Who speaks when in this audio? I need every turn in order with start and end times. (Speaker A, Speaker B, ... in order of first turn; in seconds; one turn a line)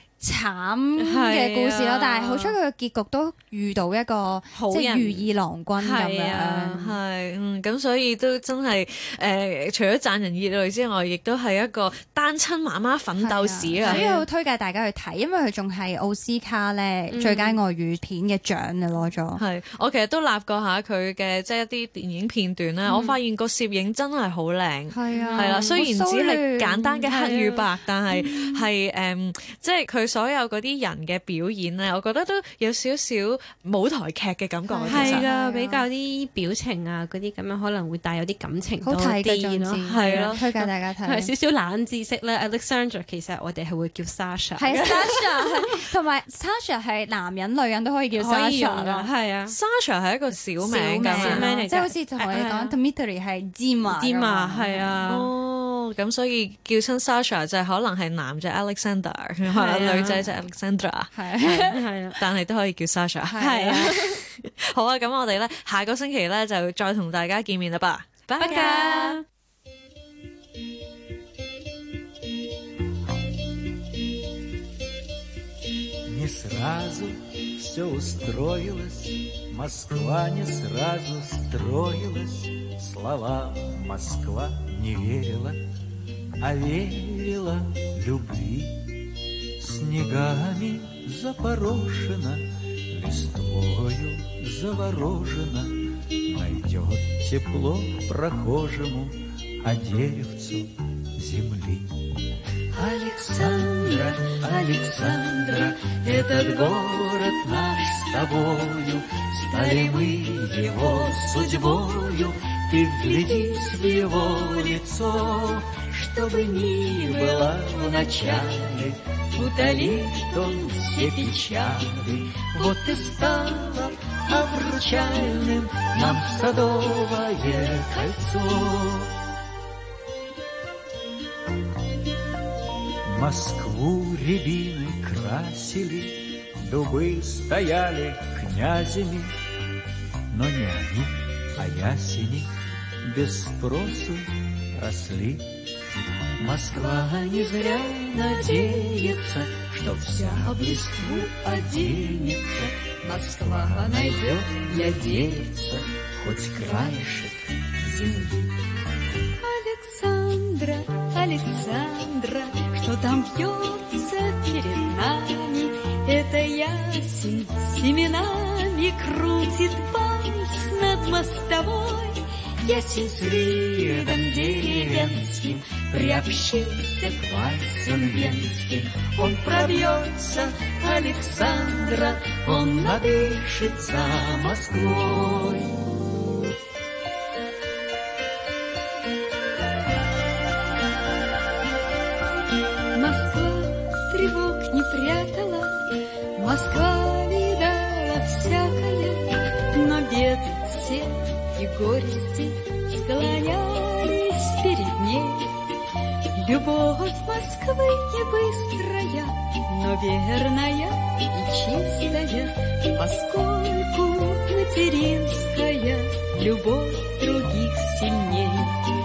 Speaker A: 0.2-6.9
Speaker B: 1.0-2.5
Speaker C: 4.5-6.9
Speaker B: 6.8-14.1
Speaker A: 13.2-19.4
Speaker C: 13.8-14.2
Speaker C: 17.1-17.6
Speaker B: 19.4-35.3
Speaker A: 22.9-23.2
Speaker A: 24.9-27.4
Speaker C: 25.1-25.6
Speaker C: 27.1-27.6
Speaker A: 28.1-28.7
Speaker A: 34.7-35.9
Speaker C: 34.9-40.3
Speaker A: 38.8-41.3
Speaker B: 39.9-40.7
Speaker C: 41.0-45.6
Speaker A: 44.6-49.1
Speaker C: 48.2-49.5
Speaker B: 49.5-51.5
Speaker A: 50.6-55.0
Speaker C: 51.0-52.8
Speaker C: 53.9-55.3
Speaker B: 55.1-69.2
Speaker C: 59.5-60.3
Speaker A: 61.1-61.8
Speaker C: 61.7-62.2
Speaker A: 63.3-64.2
Speaker C: 68.4-69.2
Speaker A: 68.4-69.0
Speaker D: 76.1-85.6
Speaker D: 86.4-89.0
Speaker D: 89.6-102.1
Speaker D: 102.7-129.1
Speaker E: 103.7-103.9
Speaker E: 109.5-110.3
Speaker E: 113.1-113.6
Speaker E: 116.8-117.3
Speaker E: 119.4-121.9
Speaker D: 133.1-139.3
Speaker D: 140.3-145.6
Speaker D: 146.4-158.3
Speaker E: 147.3-148.9
Speaker E: 150.2-152.3
Speaker E: 153.1-155.4
Speaker E: 157.8-158.3
Speaker E: 159.4-177.1
Speaker D: 172.7-185.8
Speaker E: 178.0-178.5
Speaker E: 179.4-180.1
Speaker E: 180.8-181.9
Speaker E: 182.5-183.1
Speaker E: 192.9-205.6
Speaker E: 206.3-218.9